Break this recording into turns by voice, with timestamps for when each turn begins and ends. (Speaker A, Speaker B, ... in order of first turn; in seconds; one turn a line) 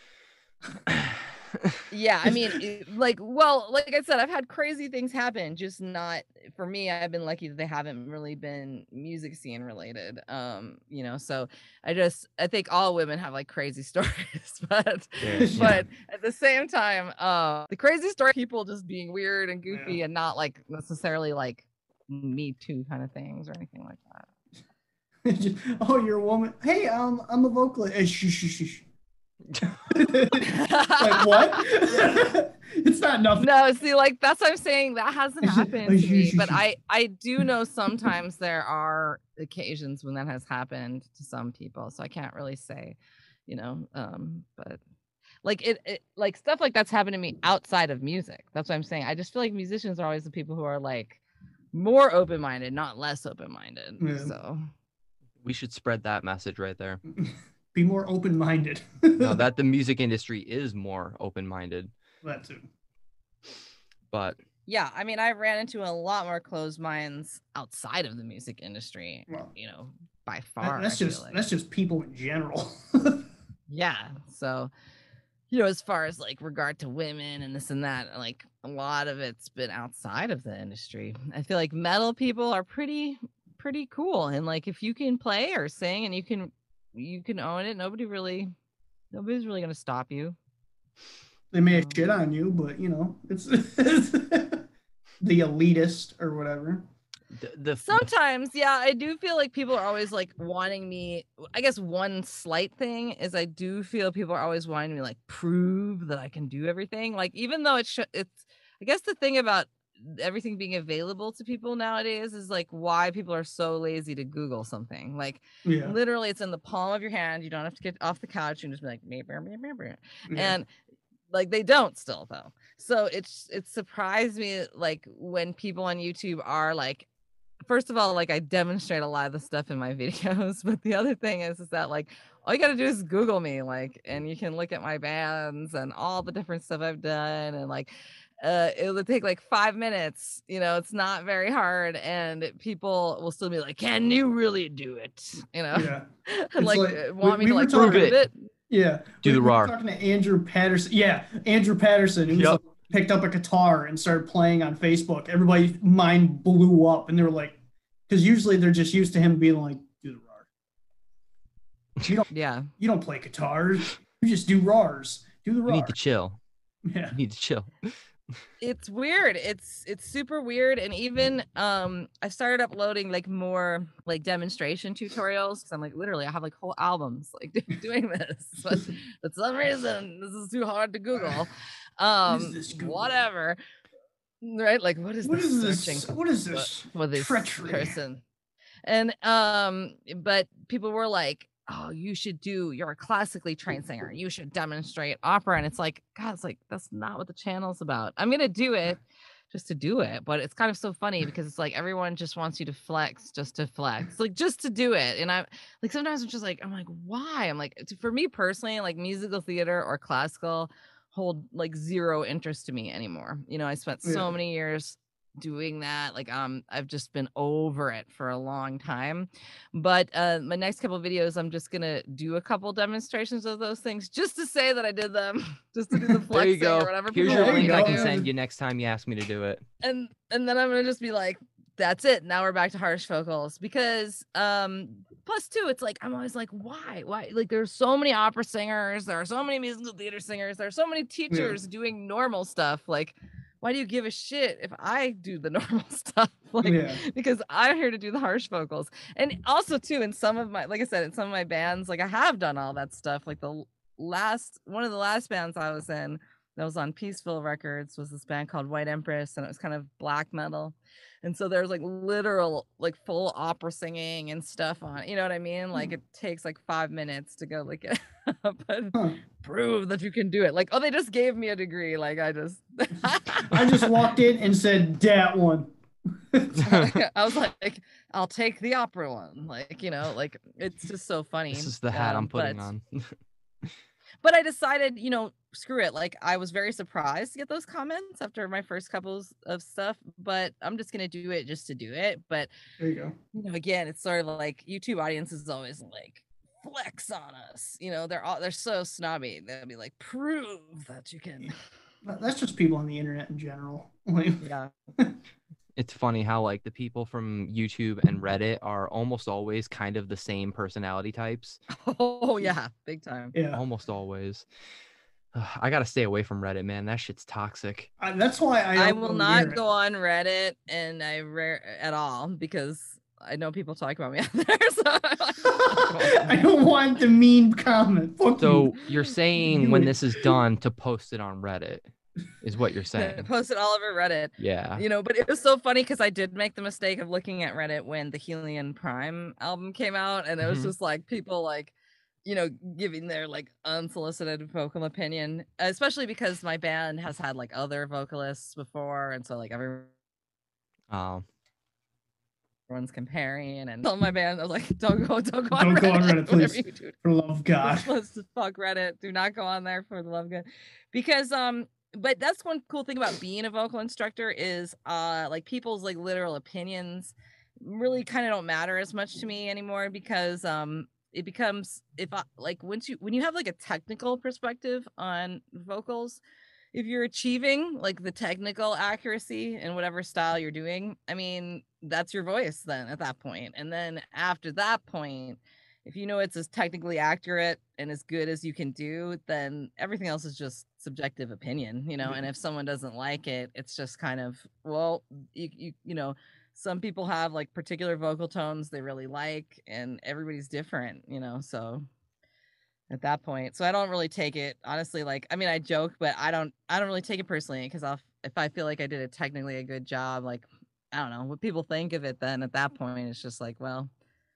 Speaker A: 0.9-1.7
Speaker B: 1.9-24.3
Speaker A: 15.2-15.8
Speaker C: 15.4-15.8
Speaker C: 19.7-20.0
Speaker C: 25.2-28.9
Speaker C: 29.6-33.5
Speaker B: 30.4-31.7
Speaker B: 33.4-44.8
Speaker C: 35.4-36.6
Speaker B: 45.4-51.2
Speaker B: 51.7-54.7
Speaker C: 54.0-54.3
Speaker A: 55.4-57.0
Speaker C: 57.1-59.4
Speaker A: 59.2-61.9
Speaker C: 62.2-62.7
Speaker A: 64.1-64.4
Speaker B: 64.7-71.4
Speaker C: 70.6-73.3
Speaker B: 73.7-74.7
Speaker B: 75.5-88.5
Speaker B: 89.1-90.4
Speaker C: 91.5-94.7
Speaker B: 91.7-92.1
Speaker C: 95.2-96.8
Speaker A: 97.3-98.1
Speaker B: 97.8-120.7
Speaker C: 115.7-116.0
Speaker C: 120.3-120.6
Speaker B: 121.3-127.1
Speaker B: 127.6-148.3
Speaker C: 145.7-148.2
Speaker A: 147.7-148.2
Speaker C: 148.7-160.5
Speaker A: 149.2-149.8
Speaker A: 152.3-152.6
Speaker B: 162.3-162.7
Speaker C: 162.8-166.0
Speaker A: 165.7-166.4
Speaker C: 166.8-167.2
Speaker A: 167.1-168.0
Speaker B: 168.6-183.6
Speaker C: 182.3-183.1
Speaker B: 184.4-188.2
Speaker C: 185.2-188.0
Speaker B: 188.8-228.1
Speaker C: 214.0-214.3
Speaker A: 226.3-229.6
Speaker C: 227.2-228.3
Speaker B: 229.8-273.6
Speaker C: 241.3-241.6
Speaker C: 246.6-247.0
Speaker C: 273.4-276.6
Speaker A: 276.6-277.0
Speaker B: 276.6-282.7
Speaker A: 281.5-283.7
Speaker B: 284.2-292.5
Speaker C: 292.8-293.2
Speaker B: 293.3-301.6
Speaker C: 302.0-304.4
Speaker B: 304.4-304.7
Speaker A: 305.8-311.6
Speaker B: 311.7-313.4
Speaker C: 313.3-313.6
Speaker A: 313.5-314.5
Speaker A: 315.3-317.9
Speaker C: 318.0-319.6
Speaker B: 318.8-326.4
Speaker C: 325.6-328.8
Speaker A: 328.4-333.3
Speaker C: 329.4-330.4
Speaker B: 332.9-341.7
Speaker A: 334.4-334.8
Speaker A: 340.4-340.7
Speaker B: 342.2-349.9
Speaker A: 350.9-351.2
Speaker B: 352.7-356.9
Speaker C: 355.6-357.9
Speaker B: 357.6-376.2
Speaker B: 376.7-401.9
Speaker B: 402.9-413.9